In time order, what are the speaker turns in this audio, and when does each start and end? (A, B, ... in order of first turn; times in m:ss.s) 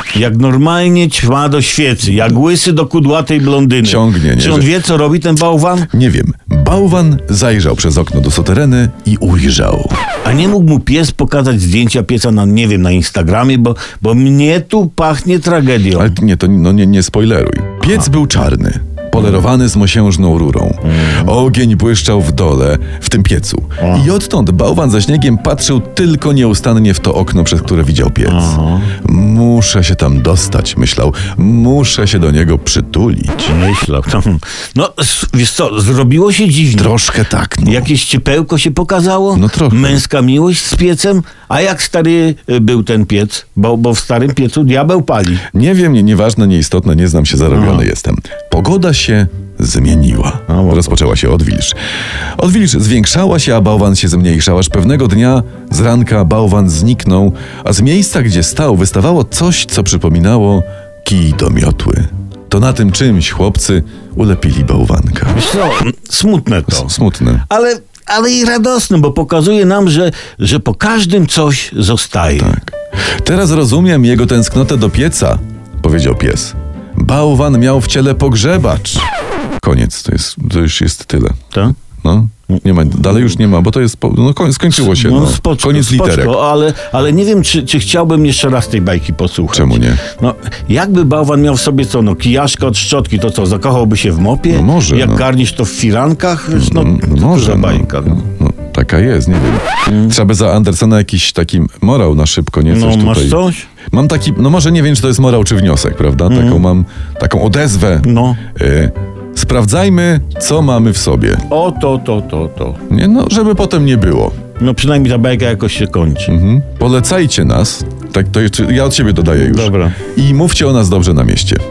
0:00.1-0:05.9 A
0:03.8-0:04.7 B
0:05.9-0:10.0 B
0:10.2-0:16.2 A
0:16.0-0:33.5 B
0:20.8-0:21.3 A
0:23.8-0:24.1 A
0:28.3-0:28.9 A
0:33.5-0:37.0 A
0:36.8-0:37.9 B
0:37.6-0:45.4 A
0:39.4-0:40.0 B
0:45.5-0:51.8 B
0:47.5-0:47.8 A
0:50.5-0:51.0 A
0:52.4-1:05.4 B
1:05.3-1:06.9 A
1:06.7-1:07.4 B
1:07.4-1:12.6 A
1:12.4-1:19.1 B
1:19.6-1:21.4 B
1:22.0-1:26.4 B
1:22.6-1:23.2 A
1:24.7-1:38.3 A
1:29.5-1:30.0 B
1:34.5-1:35.2 B
1:36.5-1:43.4 B
1:39.9-1:40.2 A
1:42.7-1:43.7 A
1:43.9-1:51.4 B
1:46.3-1:46.6 A
1:48.0-1:48.4 A
1:51.5-1:52.8 A
1:52.9-1:54.4 B
1:54.6-1:56.3 A
1:56.3-2:01.6 B
1:59.4-2:00.0 A